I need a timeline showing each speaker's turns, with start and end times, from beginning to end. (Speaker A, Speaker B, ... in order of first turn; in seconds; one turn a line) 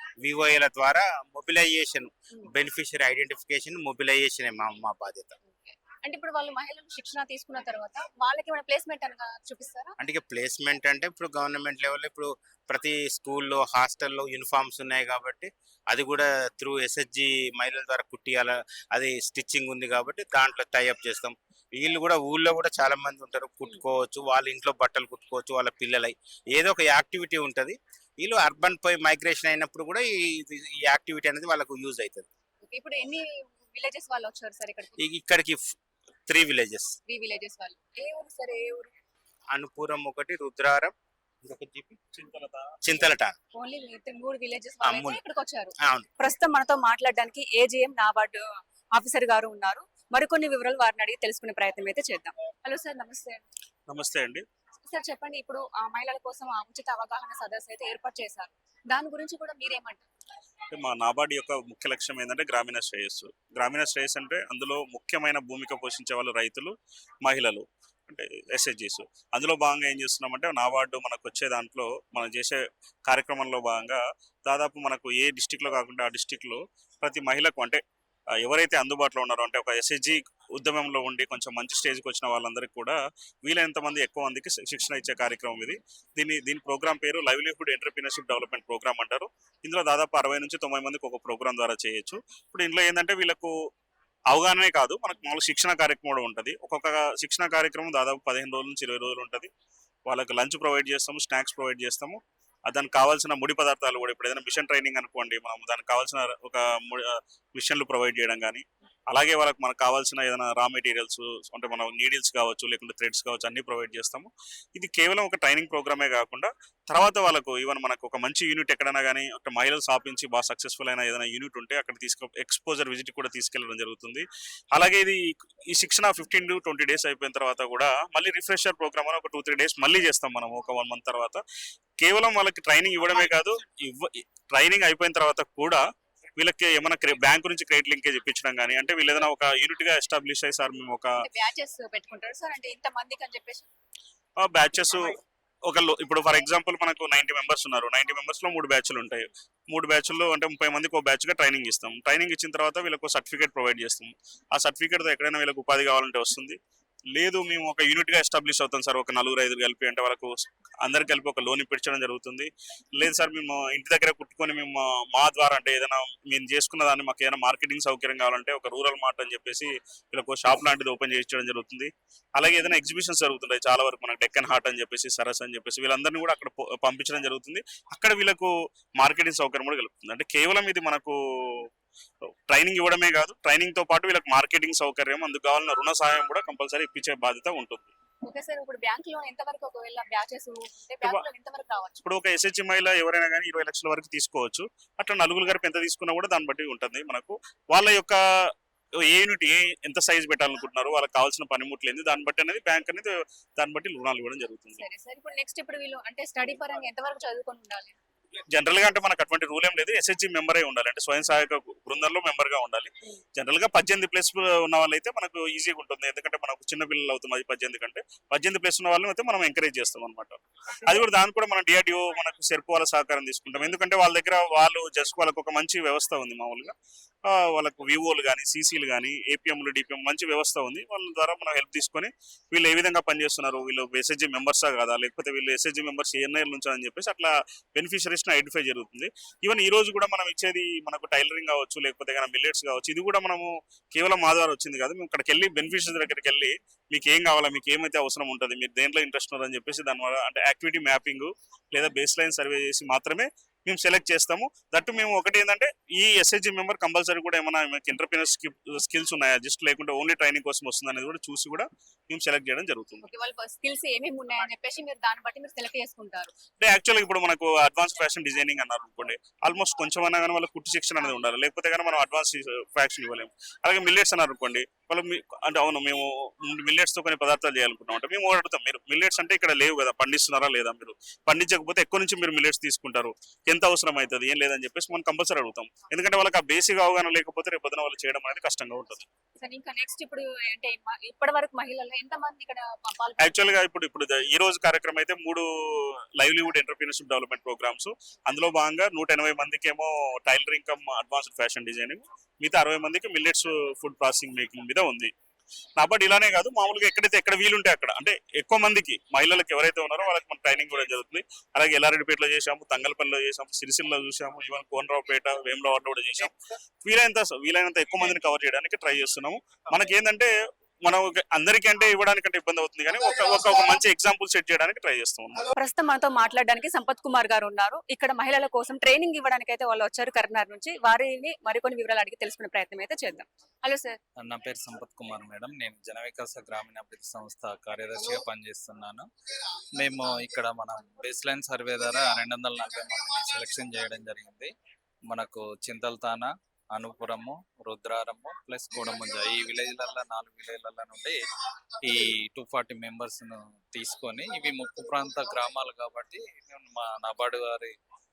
Speaker A: 0.2-5.4
Speaker B: 5.5-9.9
Speaker A: 10.0-32.3
Speaker B: 32.6-35.0
Speaker A: 35.0-35.8
Speaker A: 36.3-37.0
Speaker B: 37.1-38.9
Speaker A: 39.5-42.0
Speaker C: 42.1-42.7
Speaker A: 42.8-43.4
Speaker B: 43.6-48.4
Speaker A: 44.8-45.2
Speaker B: 49.0-53.4
Speaker C: 53.9-54.4
Speaker B: 54.9-60.0
Speaker C: 60.7-66.7
Speaker C: 67.2-77.8
Speaker C: 78.4-93.5
Speaker C: 94.3-99.5
Speaker C: 100.1-125.2
Speaker C: 125.7-131.4
Speaker C: 132.0-135.8
Speaker C: 136.4-141.1
Speaker B: 141.2-143.7
Speaker C: 144.4-156.6
Speaker C: 157.2-181.7
Speaker C: 182.5-187.9
Speaker B: 188.3-192.0
Speaker C: 192.0-198.2
Speaker C: 199.1-204.8
Speaker B: 204.8-208.0
Speaker C: 208.5-226.7
Speaker C: 227.3-263.0
Speaker B: 263.0-266.3
Speaker C: 266.6-289.1
Speaker B: 289.4-293.5
Speaker C: 293.2-295.4
Speaker C: 296.2-305.1
Speaker C: 305.8-316.3
Speaker C: 316.8-320.3
Speaker C: 320.9-325.5
Speaker B: 325.6-334.0
Speaker D: 334.2-339.1
Speaker D: 339.8-344.5
Speaker D: 345.1-351.2
Speaker D: 351.8-357.8